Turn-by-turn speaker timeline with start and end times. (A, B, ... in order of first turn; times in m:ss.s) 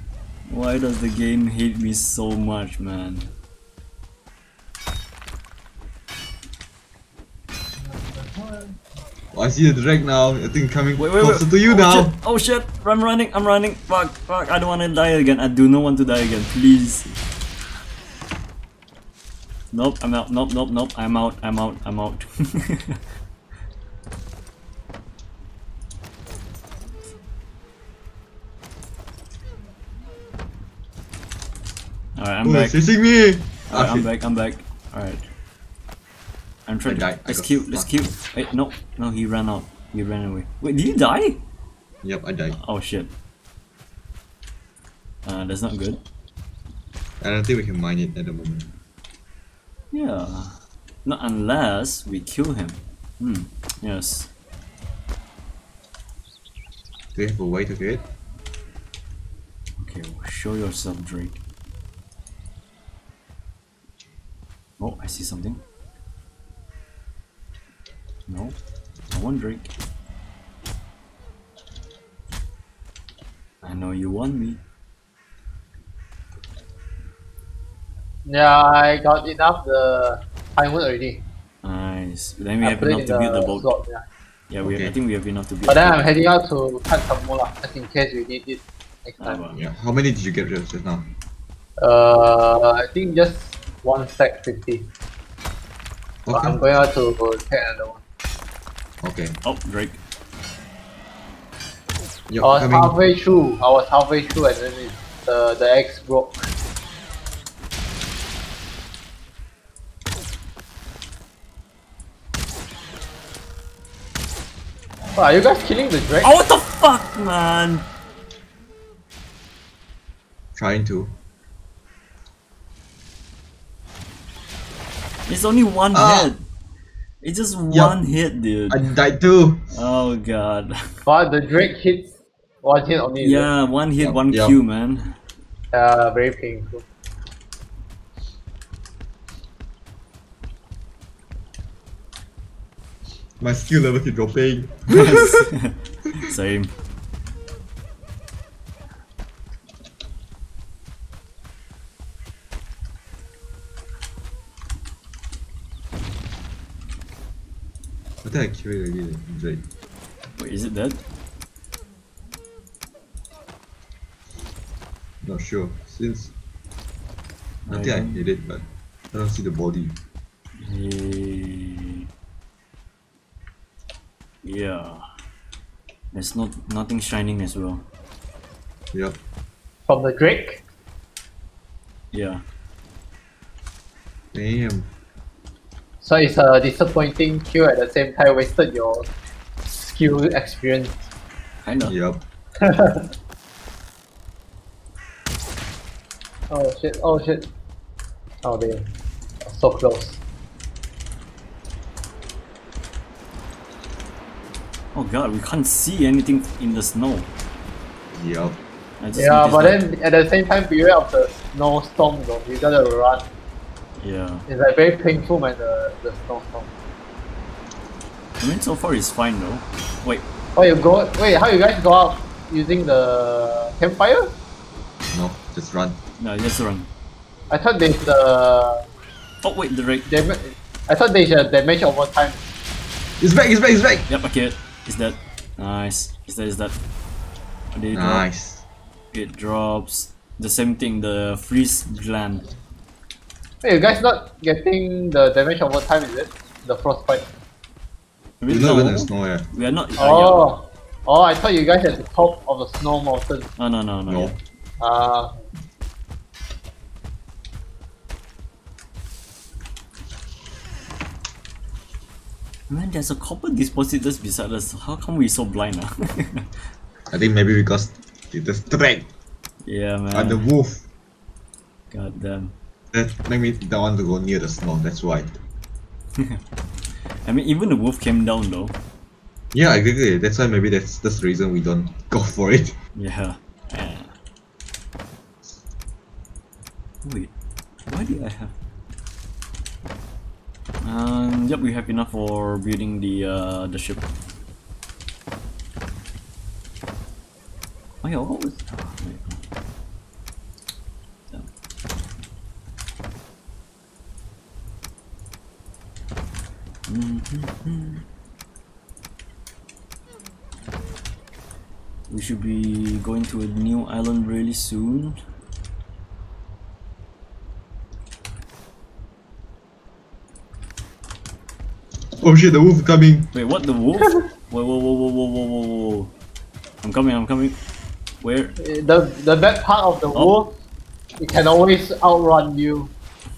0:00.5-0:03.3 A
0:07.8-0:08.8 B
0:09.3-0:12.2 C
0:11.0-0:17.1 A
0:19.7-0:23.0 A
0:32.2-0:32.8 A
0:32.4-0:34.1 C
0:33.7-0:35.2 A
0:36.7-0:41.4 A
0:36.9-0:37.9 C
0:42.0-0:42.6 C
0:42.6-0:43.1 A
0:45.2-0:46.0 A
0:47.2-0:48.7 C
0:49.9-0:54.3 A
0:57.1-0:58.0 C
0:59.8-1:01.4 A
1:04.8-1:05.6 A
1:08.3-1:08.6 A
1:09.1-1:09.7 A
1:13.6-1:14.6 A
1:18.2-1:21.2 B
1:21.6-1:23.7 A
1:22.6-1:24.0 B
1:24.5-1:26.0 A
1:24.6-1:24.9 C
1:25.7-1:29.4 B
1:29.2-1:29.6 A
1:29.5-1:31.1 C
1:31.8-1:34.9 B
1:36.2-1:36.6 C
1:36.3-1:38.0 B
1:39.0-1:39.4 C
1:39.4-1:40.0 A
1:42.3-1:42.9 C
1:42.4-1:46.5 B
1:55.2-1:56.4 B
1:56.2-1:57.8 A
2:00.6-2:01.1 C
2:05.3-2:06.4 A
2:05.9-2:06.3 C
2:07.2-2:08.9 A
2:07.7-2:08.0 C
2:08.7-2:09.6 C
2:09.7-2:10.8 A
2:11.0-2:12.1 B
2:12.6-2:13.5 B
2:13.2-2:15.1 A
2:14.0-2:14.5 C
2:15.7-2:16.8 B
2:23.4-2:25.5 C
2:24.9-2:26.7 A
2:38.2-2:39.6 C
2:40.4-2:41.0 A
2:45.2-2:46.3 C
2:47.6-2:48.2 A
2:47.7-2:49.9 C
2:50.6-2:52.0 A
2:54.4-2:55.0 A
2:56.1-2:57.8 A
2:59.9-3:00.6 B
3:02.1-3:02.4 A
3:04.3-3:04.9 C
3:06.0-3:09.1 B
3:09.7-3:11.1 B
3:11.6-3:11.9 A
3:11.8-3:12.2 C
3:12.6-3:13.1 B
3:16.5-3:17.5 B
3:18.4-3:18.9 B
3:19.4-3:20.2 B
3:24.9-3:27.3 A
3:28.1-3:28.6 C
3:29.0-3:29.8 A
3:29.2-3:33.2 B
3:34.0-3:34.4 A
3:34.5-3:36.7 B
3:38.4-3:40.2 A
3:40.6-3:44.3 B
3:45.1-3:46.0 C
3:46.2-3:46.9 A
3:47.5-3:48.8 B
3:49.4-3:50.1 A
3:50.1-3:52.4 B
3:53.2-3:54.1 C
3:54.1-3:56.8 A
3:57.7-3:58.2 A
3:57.9-3:58.6 C
3:59.1-4:02.5 A
4:03.6-4:07.2 B
4:08.4-4:10.5 A
4:08.5-4:09.5 C
4:10.0-4:13.5 B
4:13.6-4:14.4 A
4:14.1-4:14.4 C
4:14.8-4:15.4 B
4:22.7-4:26.5 A
4:27.1-4:29.1 C
4:29.6-4:30.4 A
4:30.1-4:30.8 C
4:31.9-4:32.5 A
4:32.9-4:35.4 C
4:36.2-4:36.4 A
4:37.2-4:38.8 A
4:39.5-4:42.8 C
4:43.0-4:44.1 A
4:47.0-4:47.3 A
4:47.9-4:48.5 A
4:50.8-4:54.1 A
4:58.0-4:59.4 A
5:06.9-5:08.0 A
5:12.1-5:15.2 A
5:22.1-5:23.3 C
5:23.3-5:26.1 A
5:26.8-5:27.6 A
5:28.2-5:28.5 A
5:28.6-5:30.5 B
5:31.2-5:32.9 B